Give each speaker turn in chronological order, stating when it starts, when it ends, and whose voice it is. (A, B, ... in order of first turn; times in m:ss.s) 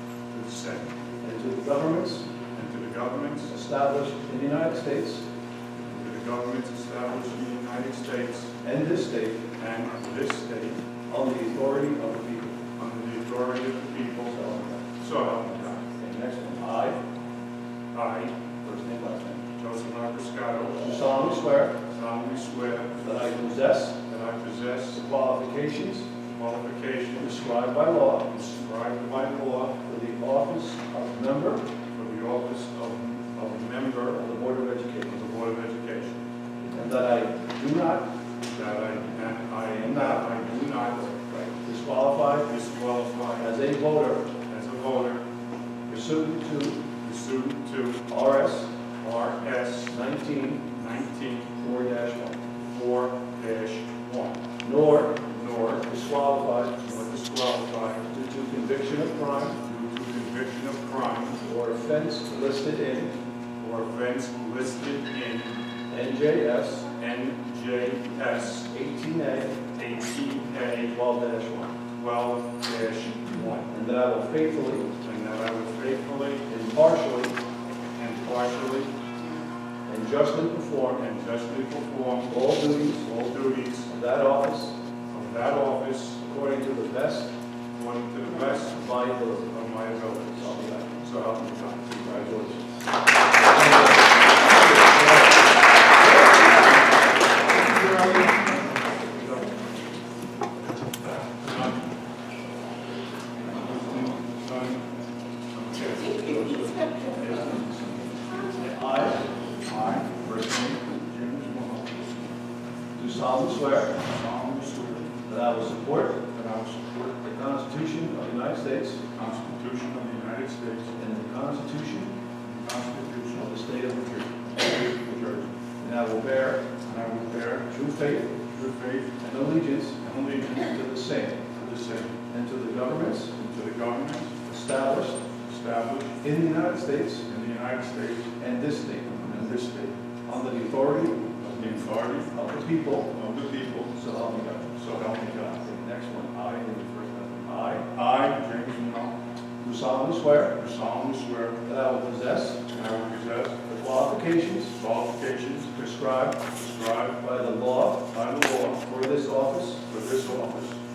0:00.3-0:00.9 A
0:01.2-0:02.3 B
0:02.5-0:03.5 A
0:03.5-0:05.3 B
0:05.8-0:08.6 A
0:08.6-0:09.5 B
0:09.6-0:10.8 A
0:11.1-0:12.6 B
0:12.8-0:15.8 A
0:14.3-0:14.8 B
0:15.8-0:17.0 B
0:17.9-0:18.3 A
0:18.6-0:19.4 B
0:19.6-0:21.2 A
0:20.8-0:21.8 B
0:21.9-0:23.5 A
0:23.0-0:24.0 B
0:24.0-0:25.0 A
0:25.0-0:26.1 B
0:26.3-0:27.4 A
0:27.2-0:28.3 B
0:28.3-0:29.8 A
0:29.8-0:31.7 B
0:31.9-0:34.0 A
0:33.8-0:35.2 B
0:35.1-0:36.2 A
0:36.7-0:38.1 B
0:38.4-0:41.5 A
0:39.8-0:40.2 B
0:41.5-0:42.5 B
0:42.5-0:43.6 A
0:43.4-0:44.3 B
0:44.5-0:45.3 A
0:45.9-0:46.9 B
0:47.0-0:48.1 A
0:48.1-0:48.7 B
0:49.0-0:50.0 A
0:49.9-0:50.7 B
0:50.7-0:51.6 A
0:51.6-0:52.4 B
0:52.7-0:54.4 A
0:54.6-0:55.3 B
0:55.3-0:55.8 A
0:55.8-0:56.8 B
0:56.8-0:58.1 A
0:58.1-0:59.6 B
0:59.6-1:01.4 A
1:01.4-1:03.2 B
1:03.6-1:05.6 A
1:05.9-1:06.9 B
1:06.9-1:08.7 A
1:08.7-1:09.7 B
1:09.7-1:11.0 A
1:10.8-1:11.8 B
1:11.9-1:13.7 A
1:13.7-1:14.9 B
1:15.0-1:16.5 A
1:16.5-1:17.4 B
1:18.0-1:18.9 A
1:19.9-1:21.1 B
1:21.0-1:23.9 A
1:22.3-1:23.1 B
1:23.9-1:24.8 B
1:25.1-1:26.2 A
1:26.2-1:27.4 B
1:27.7-1:28.9 A
1:28.6-1:31.0 B
1:29.5-1:32.3 A
1:31.9-1:32.6 B
1:33.5-1:34.0 B
1:34.7-1:35.2 B
1:37.7-1:38.3 B
1:41.4-1:41.8 A
1:43.5-1:44.8 A
1:45.5-1:47.7 A
1:48.4-1:49.2 B
1:49.7-1:50.3 A
1:50.3-1:50.8 B
1:51.1-1:52.1 A
1:53.0-1:53.9 B
1:54.0-1:55.1 A
1:55.2-1:56.3 B
1:56.4-1:57.1 A
1:57.1-1:59.1 B
1:59.1-2:00.9 A
2:01.0-2:02.2 B
2:02.4-2:03.4 A
2:03.3-2:04.5 B
2:04.6-2:05.5 A
2:05.8-2:06.7 B
2:06.8-2:07.7 A
2:07.6-2:08.4 B
2:08.5-2:09.2 A
2:09.2-2:11.5 B
2:10.1-2:10.7 A
2:11.6-2:12.2 A
2:12.3-2:13.4 B
2:13.4-2:14.4 A
2:14.4-2:15.3 B
2:15.4-2:16.2 A
2:16.2-2:17.3 B
2:17.3-2:18.3 A
2:18.4-2:19.6 B
2:19.5-2:20.0 A
2:20.2-2:21.3 B
2:21.4-2:22.3 A
2:22.3-2:23.1 B
2:23.2-2:23.9 A
2:23.9-2:24.7 B
2:24.8-2:25.5 A
2:25.3-2:27.9 B
2:27.9-2:29.2 A
2:29.6-2:30.6 B
2:30.6-2:31.6 A
2:31.6-2:32.6 B
2:32.7-2:33.6 A
2:33.6-2:34.8 B
2:34.8-2:35.7 A
2:35.7-2:36.5 B
2:36.5-2:37.2 A
2:37.2-2:39.8 B
2:38.2-2:38.6 A
2:39.9-2:40.8 A